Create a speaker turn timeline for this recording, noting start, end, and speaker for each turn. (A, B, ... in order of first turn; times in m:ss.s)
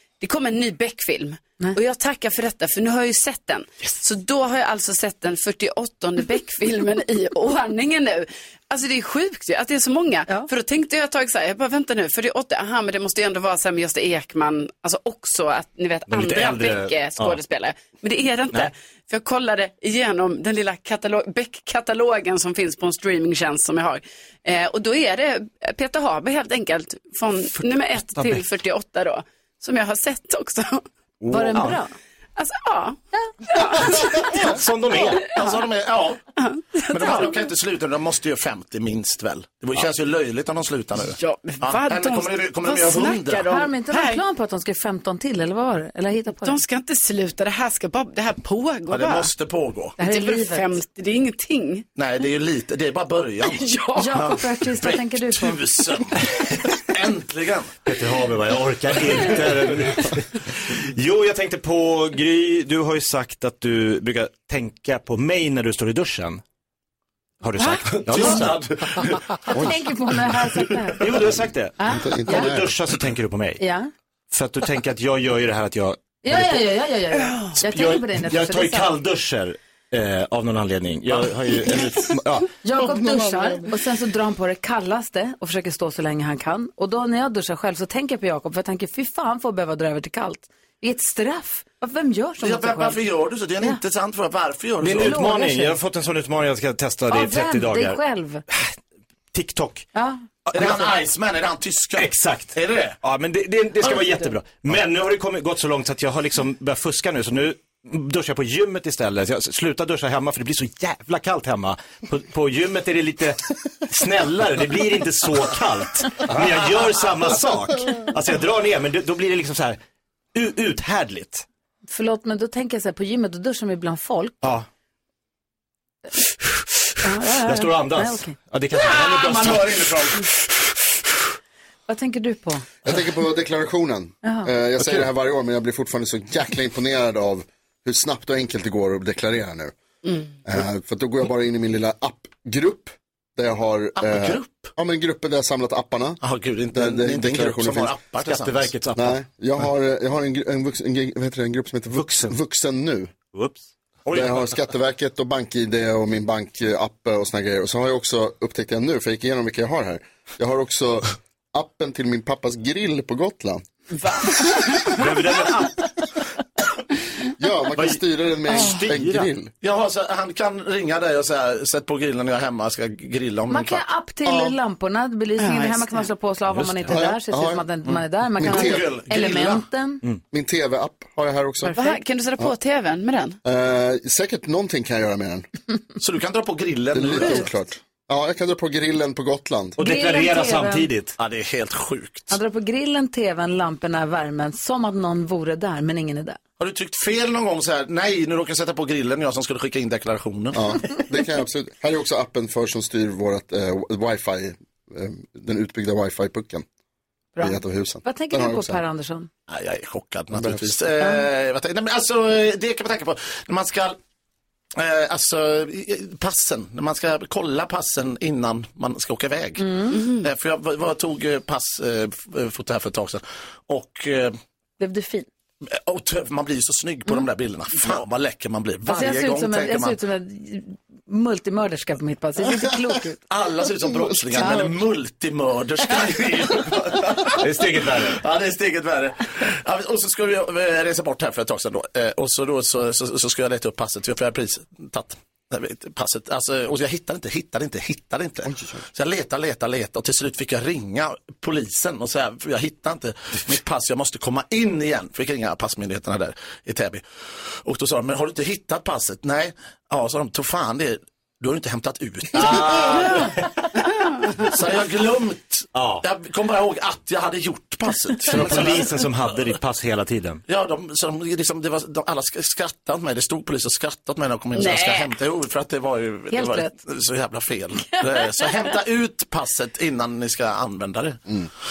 0:00.2-0:30.8 A
0:16.1-0:17.4 B
0:28.2-0:28.4 B
0:31.2-0:31.8 B
0:31.3-0:31.9 C
0:32.4-0:34.3 A
0:34.4-0:35.4 B
0:35.1-0:36.2 D
0:35.3-0:35.6 A
0:36.4-0:37.5 A
0:36.9-0:43.5 D
0:41.0-0:44.2 A
0:43.4-0:46.6 C
0:46.4-0:49.3 A
0:48.9-0:50.0 D
0:50.0-0:51.8 A
0:50.0-0:50.7 C
0:52.0-0:57.8 D
0:53.4-0:54.2 A
0:53.9-0:55.7 C
0:57.8-1:06.4 B
1:07.4-1:09.7 B
1:08.1-1:08.6 D
1:09.5-1:11.0 C
1:11.0-1:13.6 B
1:11.8-1:12.5 C
1:11.8-1:12.8 E
1:13.6-1:13.9 C
1:14.3-1:16.6 B
1:16.2-1:18.9 C
1:17.6-1:22.6 B
1:22.6-1:33.0 C
1:32.4-1:35.2 D
1:34.8-1:38.7 B
1:34.9-1:35.8 C
1:37.1-1:38.4 C
1:39.3-1:39.8 B
1:39.9-1:40.2 C
1:40.5-1:40.9 B
1:40.5-1:43.0 D
1:42.0-1:59.8 B
1:43.8-1:44.3 C
2:00.3-2:01.4 B
2:01.9-2:04.4 C
2:07.0-2:08.3 C
2:07.4-2:10.0 B
2:08.7-2:10.2 D
2:11.9-2:12.6 C
2:12.8-2:19.7 E
2:14.2-2:14.5 C
2:20.4-2:26.2 E
2:24.0-2:24.7 D
2:26.2-2:28.7 D
2:26.7-2:28.0 E
2:28.1-2:29.2 B
2:28.9-2:33.1 E
2:31.9-2:32.3 B
2:33.3-2:34.4 B
2:34.1-2:43.6 E
2:44.9-2:45.9 B
2:47.4-2:49.5 E
2:47.7-2:49.3 B
2:49.6-2:54.5 D
2:53.5-3:00.0 C
2:55.4-2:56.1 A
2:56.5-2:56.9 B
2:56.9-2:57.6 E
2:58.4-2:58.9 E
2:58.4-2:59.6 D
3:00.3-3:01.7 E
3:01.6-3:02.0 C
3:01.7-3:03.4 A
3:03.4-3:05.4 E
3:06.0-3:07.5 D
3:06.9-3:09.8 E
3:09.8-3:11.1 B
3:09.8-3:10.9 C
3:11.2-3:12.4 D
3:12.3-3:16.4 C
3:16.6-3:21.0 D
3:20.5-3:26.6 E
3:27.4-3:29.3 C
3:27.4-3:28.8 E
3:29.5-3:34.0 D
3:30.3-3:30.8 E
3:31.0-3:31.3 C
3:34.8-3:44.4 D
3:39.6-3:40.0 C
3:39.9-3:40.2 A
3:44.8-3:45.3 C
3:45.7-3:50.0 D
3:48.8-3:53.2 C
3:53.3-4:23.3 D
3:54.4-3:54.7 C
3:57.4-3:58.2 B
4:08.4-4:08.8 E
4:22.3-4:23.6 B
4:24.4-4:29.0 D
4:25.7-4:26.0 B
4:28.2-4:30.4 B
4:30.5-4:41.2 D
4:34.5-4:35.1 A
4:36.3-4:36.7 C